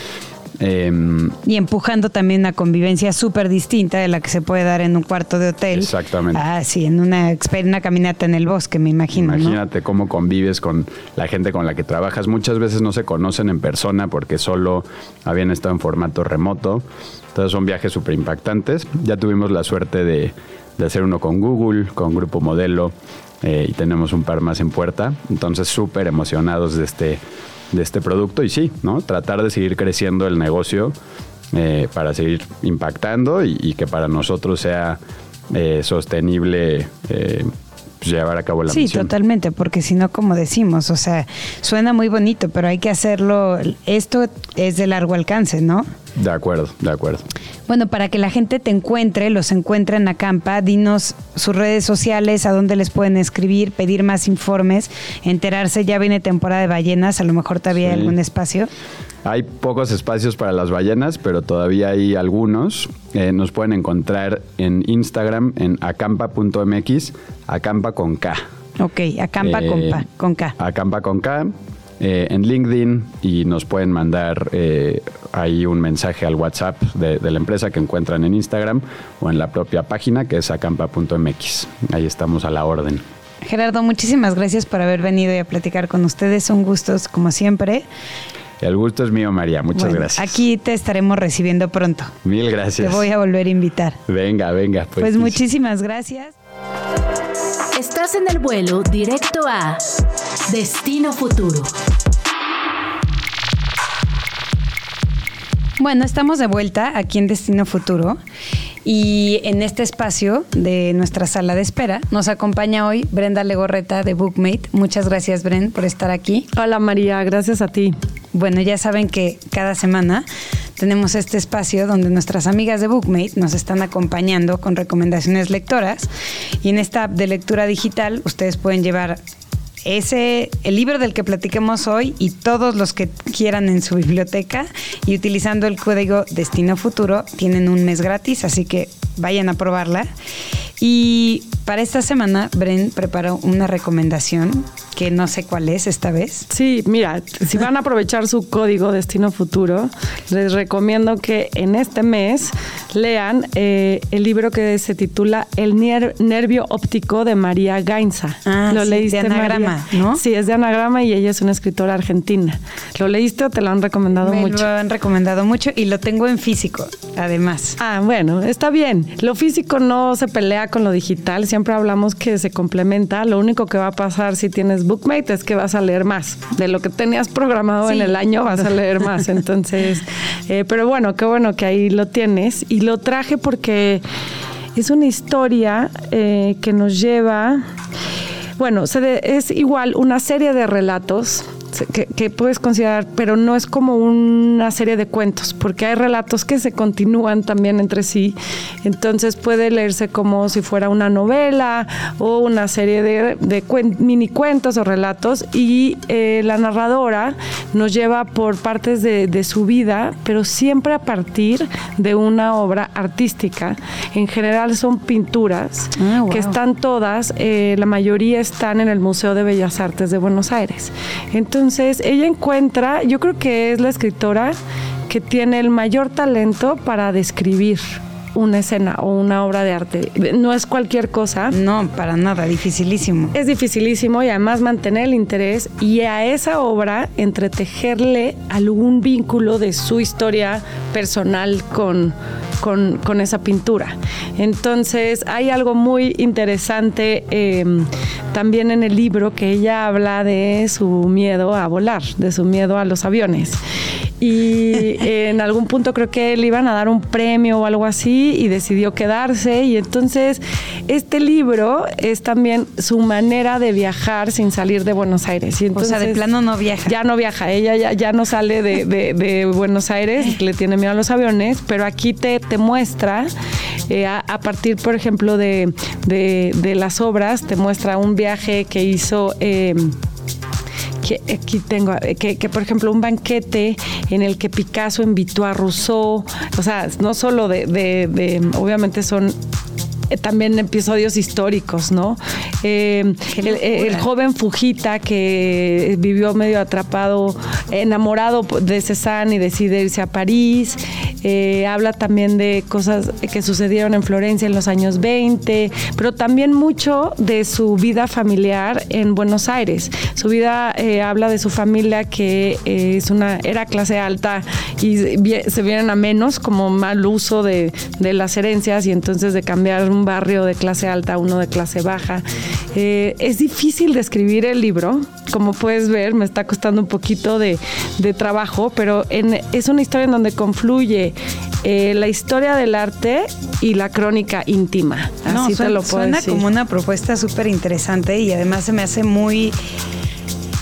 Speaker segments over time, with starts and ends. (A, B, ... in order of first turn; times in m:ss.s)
0:00.6-0:01.4 A
0:01.4-0:09.6 B
0:05.7-0:06.4 A
0:09.1-0:27.2 A
0:27.7-0:30.9 A
0:31.5-0:35.0 A
0:35.5-0:37.5 A
0:38.0-0:39.1 A
0:38.7-0:45.9 B
0:46.2-0:47.2 A
0:47.7-0:58.7 B
0:57.8-0:58.2 A
0:59.2-1:08.4 A
1:08.8-1:10.6 B
1:09.4-1:10.0 A
1:10.6-1:23.0 A
1:23.4-1:27.9 B
1:28.6-1:30.4 A
1:29.7-1:32.1 B
1:32.2-1:33.1 A
1:32.8-1:34.0 B
1:34.1-1:35.4 A
1:35.0-1:36.4 B
1:37.8-1:39.8 C
1:40.5-1:41.7 C
1:45.8-1:48.2 B
1:48.8-1:56.5 B
1:56.5-1:58.0 D
1:58.3-2:00.2 B
2:00.8-2:06.1 B
2:06.6-2:09.2 B
2:09.8-2:20.1 B
2:20.8-2:26.5 B
2:26.5-2:44.7 D
2:38.5-2:40.2 B
2:44.2-2:47.8 B
2:47.8-3:04.0 D
3:04.8-3:07.7 D
3:08.6-3:44.6 D
3:36.0-3:36.6 B
3:45.1-3:51.6 D
3:51.5-3:53.3 B
3:53.3-4:13.6 D
4:14.2-4:26.3 D
4:25.8-4:26.9 B
4:26.8-4:33.3 D
4:33.9-4:40.0 D
4:41.0-4:49.4 D
4:50.1-5:36.5 D
4:53.4-4:54.1 B
5:35.3-5:39.6 B